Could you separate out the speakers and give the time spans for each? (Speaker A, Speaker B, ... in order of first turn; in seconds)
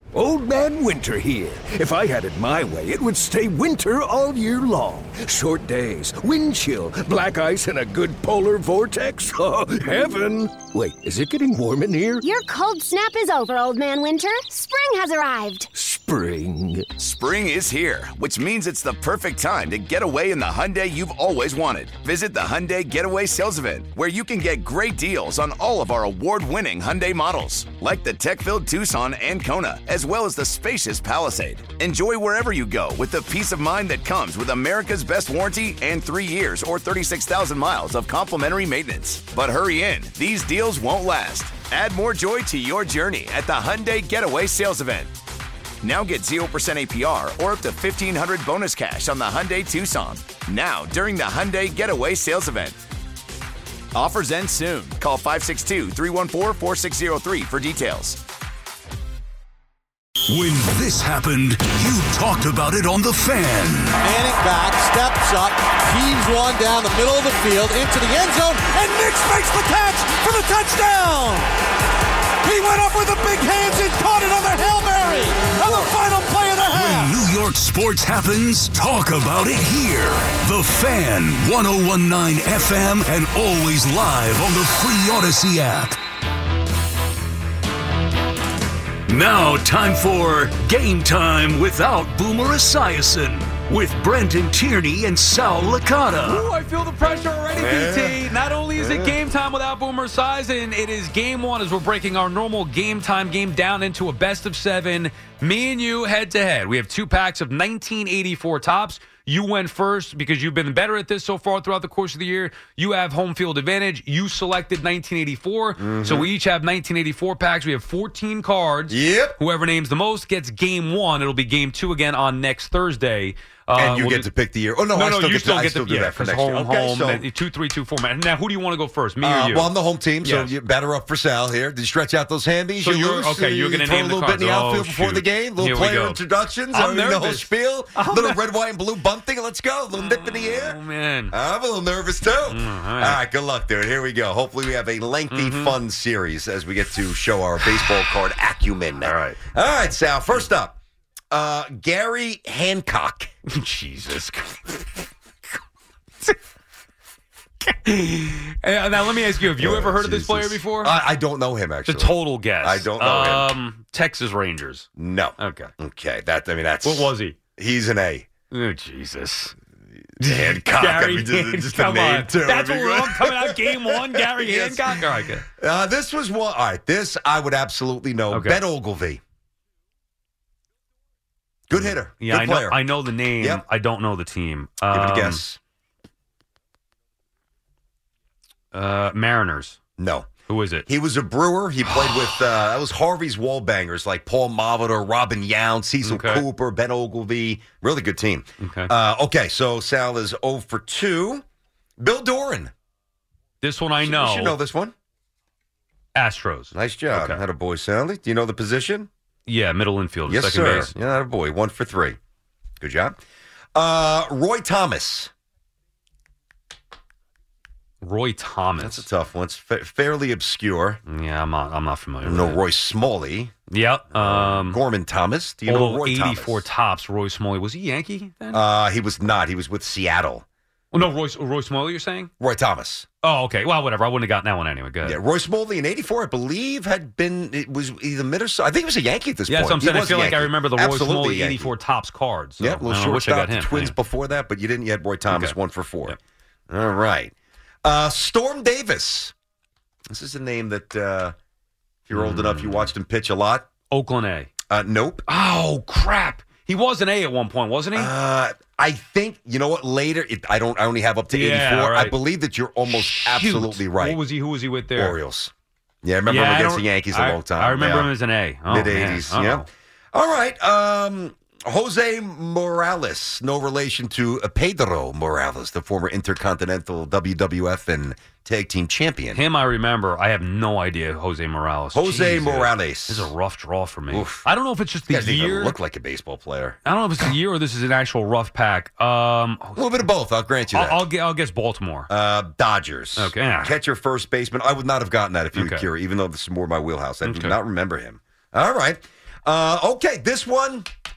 Speaker A: 0.1-12.2, 15.7-17.1
Speaker B: 12.2-15.7
Speaker C: 17.0-45.1, 45.8-52.8, 53.9-58.2
Speaker D: 60.2-64.0, 76.7-86.0, 89.1-96.5
Speaker E: 64.0-71.5, 72.4-77.1
Speaker F: 96.2-124.3, 124.9-130.5, 132.8-136.2, 136.7-138.4, 139.9-141.3, 142.5-143.2, 145.3-145.8, 149.0-149.4, 153.4-154.9, 157.6-160.9, 161.8-165.7, 166.8-167.3, 168.5-169.5, 170.2-175.4, 178.3-178.6, 181.7-185.4, 188.7-189.8, 190.5-190.9, 191.8-192.4, 196.0-196.4, 198.6-198.9, 203.6-204.6, 206.1-207.4, 209.5-210.9, 218.0-219.1, 221.1-222.6, 223.7-224.8, 225.7-228.6, 230.9-232.3, 233.2-235.2, 239.5-244.0, 245.3-246.2, 252.1-252.9, 253.9-254.5, 255.3-258.1, 261.3-262.2, 262.8-265.2, 266.3-269.6, 279.3-285.8, 286.8-290.0, 290.7-292.1, 293.2-293.8, 295.5-295.9, 297.2-297.6
Speaker G: 97.5-99.2, 115.8-116.3, 118.9-119.4, 123.8-127.2, 129.2-140.8, 141.3-150.8, 151.3-153.3, 159.6-163.5, 164.9-168.3, 170.1-179.2, 181.7-183.6, 184.9-185.6, 190.0-190.3, 190.8-201.4, 202.0-202.7, 204.0-204.9, 206.7-209.1, 210.3-212.2, 212.8-213.2, 213.7-215.3, 218.8-221.0, 222.2-223.5, 224.1-226.6, 228.5-230.4, 232.4-233.1, 235.0-241.7, 242.6-246.2, 246.7-249.3, 250.1-251.3, 252.1-253.7, 254.7-255.2, 257.9-264.2, 264.9-268.1, 268.6-279.4, 281.9-283.3, 284.1-284.5, 285.1-286.8, 289.8-291.0, 292.1-300.9